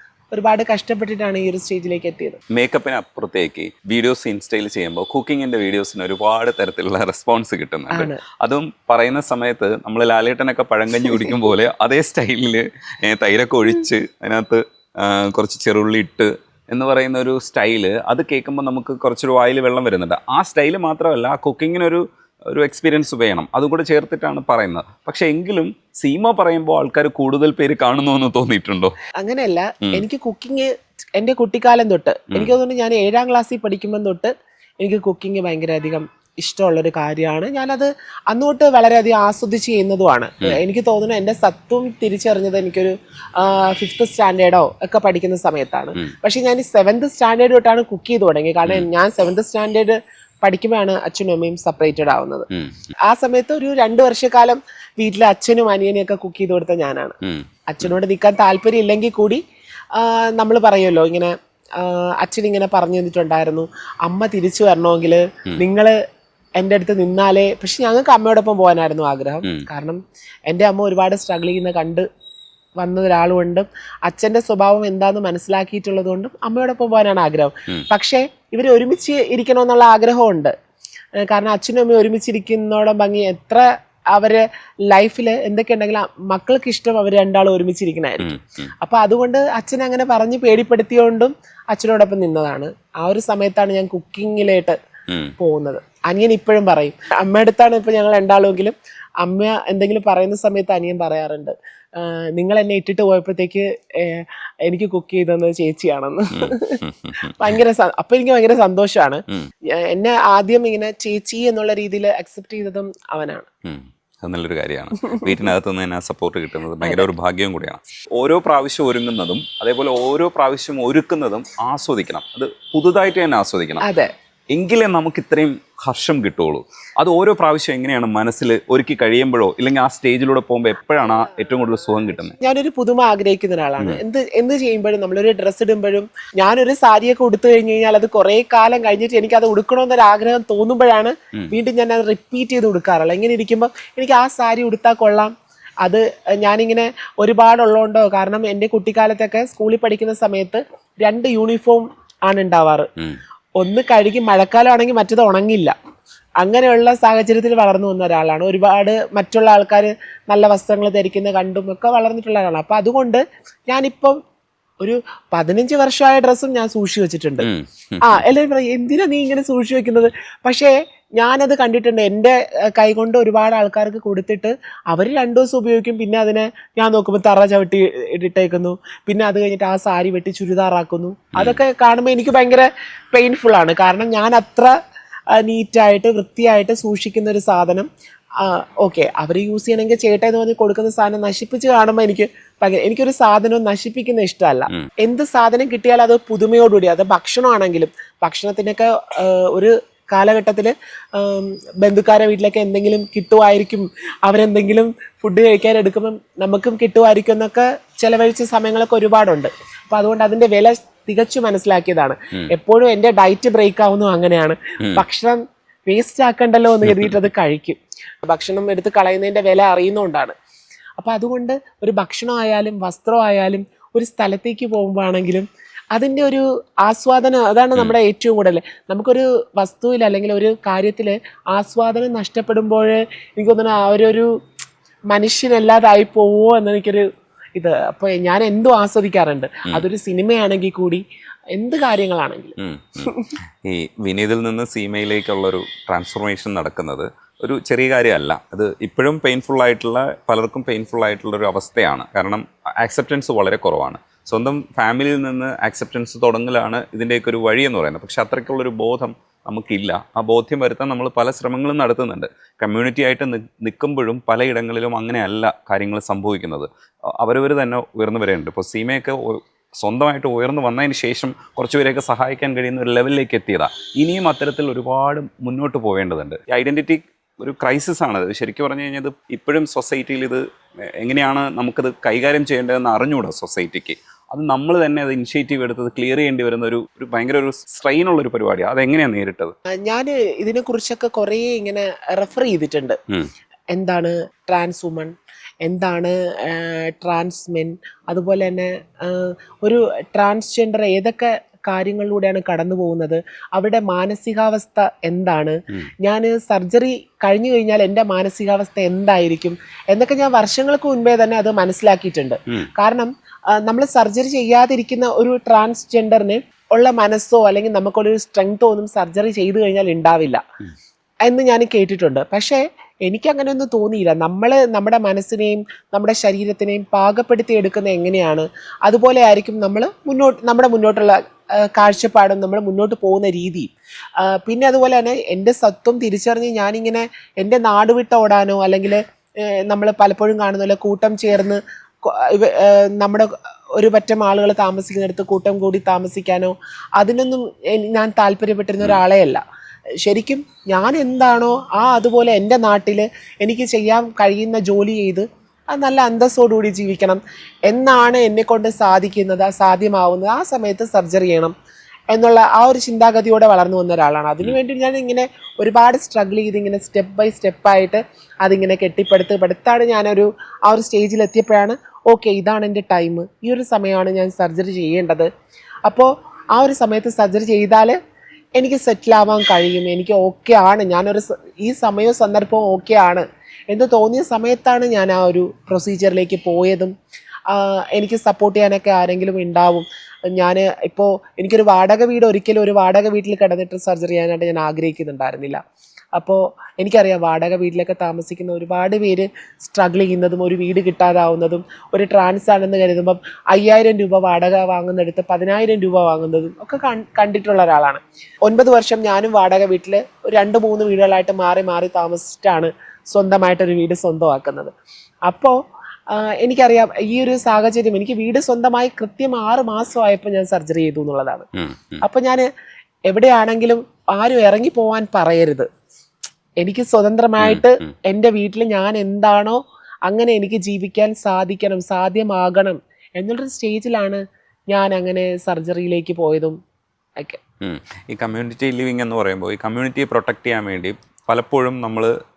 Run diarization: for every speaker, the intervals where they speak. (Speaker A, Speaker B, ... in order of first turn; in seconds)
Speaker A: 0.3-2.4, 7.9-8.2, 29.2-52.5, 53.1-57.2, 57.7-59.4, 60.0-66.0, 66.6-72.0, 72.8-80.5, 81.2-94.8, 95.4-106.8, 107.4-109.2, 109.9-113.5, 123.8-124.1, 132.4-145.3, 145.8-152.9, 153.6-155.8, 156.4-164.2, 164.8-167.5, 168.0-184.7, 185.4-187.9, 188.4-220.3, 221.0-234.3, 235.1-237.1, 237.6-241.0, 241.5-243.3, 289.9-293.0, 293.7-295.1, 295.6-313.1, 313.6-320.4, 321.3-349.4, 350.0-361.5, 362.1-375.3, 375.9-378.0, 378.6-386.9, 387.5-395.6, 396.2-414.7, 415.3-415.6, 416.1-421.5, 422.0-422.5, 423.1-425.7, 426.6-434.2, 434.7-436.6
Speaker B: 2.5-28.9, 52.5-52.8, 57.2-57.9, 88.2-88.7, 106.3-107.5, 113.7-123.9, 124.5-132.4, 167.4-168.2, 181.3-181.6, 216.9-217.2, 242.6-243.1, 243.6-266.7, 267.2-280.4, 281.0-289.5, 421.6-422.0, 427.4-427.9, 437.6-442.1